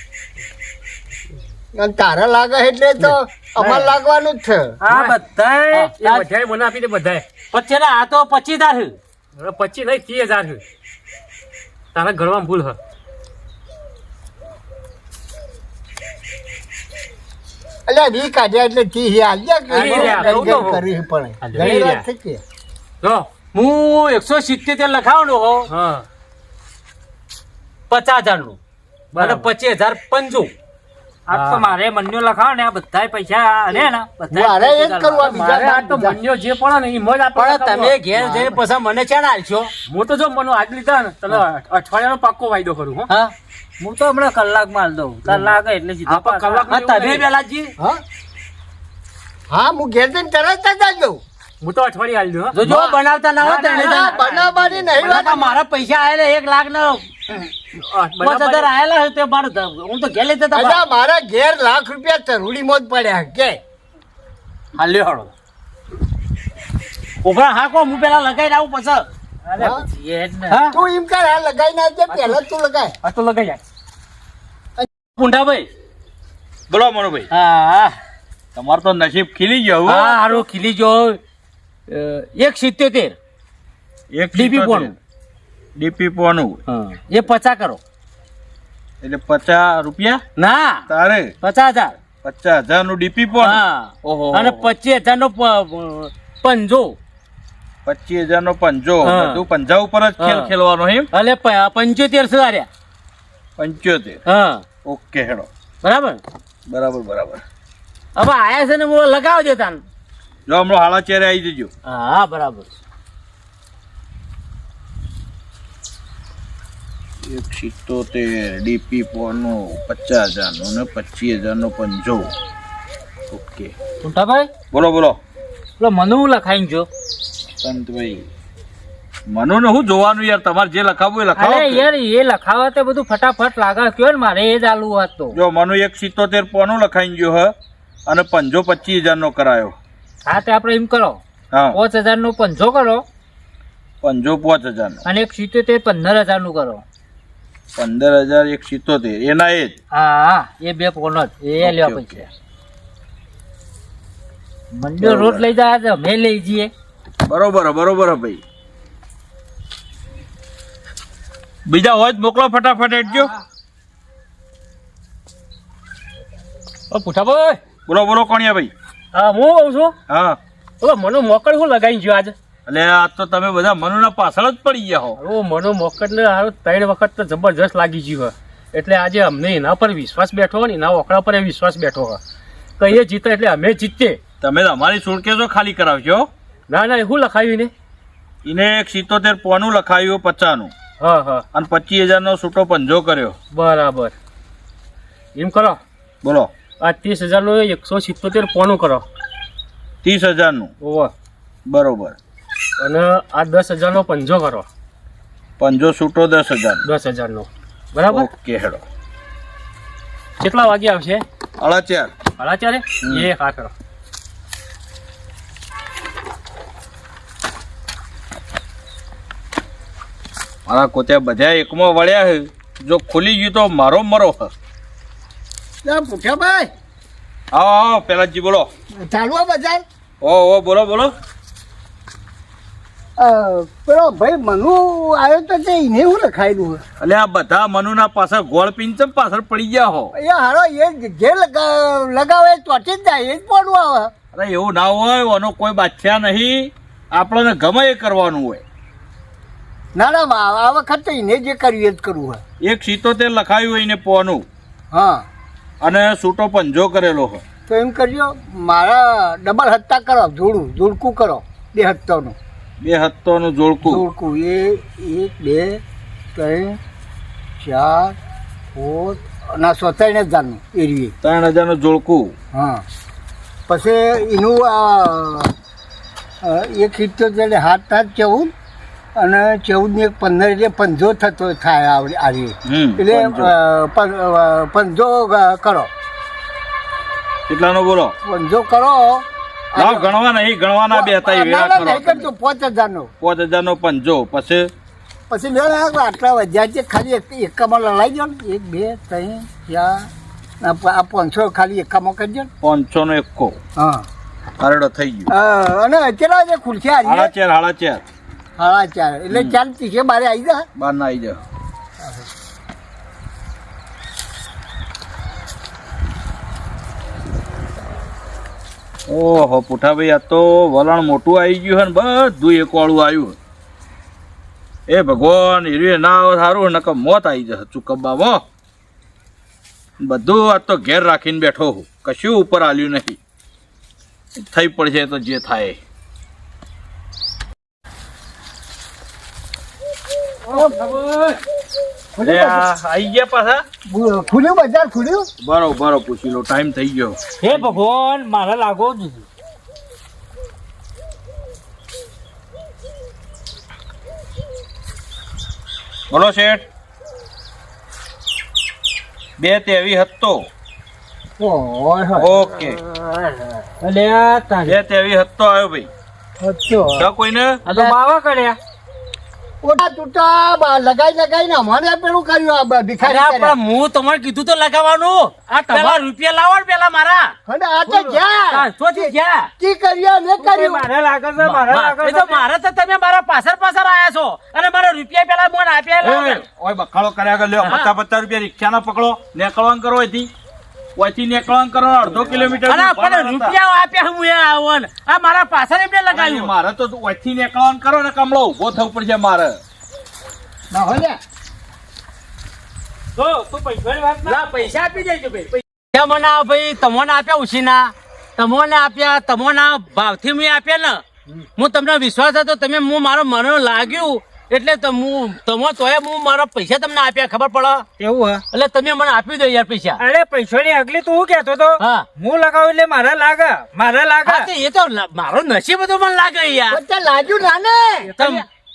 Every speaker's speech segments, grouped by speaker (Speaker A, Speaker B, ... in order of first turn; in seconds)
Speaker A: 1.7-4.8, 17.9-22.4, 34.3-36.2, 38.1-38.6, 49.5-51.2, 52.6-53.0, 53.5-55.6, 60.5-63.6, 69.6-69.9, 70.7-72.9, 225.8-226.7, 229.0-229.8, 233.2-236.8, 240.1-244.1, 250.0-252.4, 254.9-255.3, 257.7-262.4, 263.8-265.8, 266.4-266.8, 267.6-268.2, 268.8-271.1, 272.5-272.9, 273.7-275.5, 276.4-278.5, 279.1-285.9, 288.2-290.1, 290.9-293.1, 295.3-300.1, 300.6-302.5, 303.8-304.1, 305.3-307.3, 308.6-310.7, 312.0-312.3, 342.2-342.7, 343.9-345.3, 361.4-362.3, 366.4-367.1, 369.6-373.6, 377.5-380.9, 392.1-392.6, 400.7-401.2, 426.7-428.1
Speaker B: 3.6-3.9, 4.8-5.9, 31.3-35.5, 43.8-46.7, 69.5-70.6, 124.0-124.5, 125.8-126.9, 131.4-135.4, 140.2-141.2, 141.7-143.0, 145.1-146.8, 149.9-152.3, 154.7-156.7, 340.5-341.4, 347.4-349.3, 363.8-364.8, 367.7-368.6, 380.4-382.4, 403.2-404.4, 418.0-418.4, 420.0-424.5
Speaker C: 4.9-5.2, 5.9-7.2, 9.4-10.6, 11.9-12.8, 19.7-20.9, 21.4-22.1, 25.7-26.1, 29.1-29.5, 31.3-31.7, 35.2-38.0, 39.9-43.1, 46.1-47.2, 51.6-52.6, 53.4-54.4, 57.8-58.7, 72.1-72.4, 73.0-73.6, 80.1-80.4, 166.9-167.6, 169.1-169.9, 170.8-172.3, 175.2-182.2, 182.8-184.2, 186.7-187.7, 191.0-191.4, 193.5-194.1, 195.3-195.8, 196.8-199.1, 200.8-201.1, 202.8-204.7, 206.8-208.3, 210.4-211.2, 212.4-213.7, 375.6-376.0, 428.1-428.4
Speaker D: 5.7-6.3, 7.5-9.0, 19.8-20.5, 23.5-25.7, 27.9-28.6, 29.2-30.5, 37.4-39.7, 43.1-43.3, 46.6-47.7, 52.5-57.0, 58.2-60.8, 64.8-65.3, 67.2-69.0, 70.5-70.8, 75.2-75.7, 77.3-78.0, 79.9-81.2, 81.9-83.2, 84.3-85.0, 86.7-87.8, 90.4-90.9, 91.4-92.0, 93.4-97.0, 99.0-99.4, 100.2-100.5, 101.1-102.7, 104.3-104.7, 105.8-106.2, 108.2-109.8, 111.9-112.7, 367.7-368.0, 373.0-377.4, 377.9-379.5, 381.4-386.4, 387.6-387.9, 392.7-396.5, 404.2-411.0, 411.6-417.9, 418.5-420.0, 421.8-422.1, 424.2-426.8, 428.2-428.4
Speaker E: 76.7-77.3, 78.5-80.1, 84.1-84.9, 85.8-86.6, 89.0-90.2, 90.9-91.3, 92.2-94.7, 97.9-101.1, 103.6-104.2, 104.8-105.5, 106.7-107.4, 110.5-111.7, 117.2-122.3, 123.3-123.7, 124.7-125.2, 127.6-128.3, 129.3-131.9, 135.3-137.5, 138.1-139.8, 141.5-141.8, 144.0-145.0, 147.8-149.8, 151.6-152.3, 155.0-155.5, 157.3-158.4, 161.7-163.3, 167.9-168.7, 170.1-170.4, 172.7-175.2, 184.4-186.3, 188.4-190.7, 191.5-193.4, 196.2-196.5, 200.0-200.7, 201.7-202.2, 205.6-206.8, 208.1-208.8, 211.6-212.1, 213.0-213.3, 220.7-224.5, 227.5-228.7, 230.2-231.1, 237.0-240.1, 244.3-248.6, 252.6-254.4, 255.8-257.4, 262.8-264.1, 271.2-272.3, 282.6-283.5, 287.5-288.1, 289.8-292.3, 293.2-294.7, 302.6-303.6, 304.6-305.3, 307.1-308.1, 309.3-309.6, 310.8-311.4, 319.1-323.4, 324.9-328.4, 330.0-333.2, 334.4-335.8, 342.2-343.6, 345.4-347.8, 356.1-356.7, 359.4-360.5, 362.2-362.8, 364.7-365.9, 367.0-367.6, 386.1-390.3, 391.0-393.6, 396.1-399.6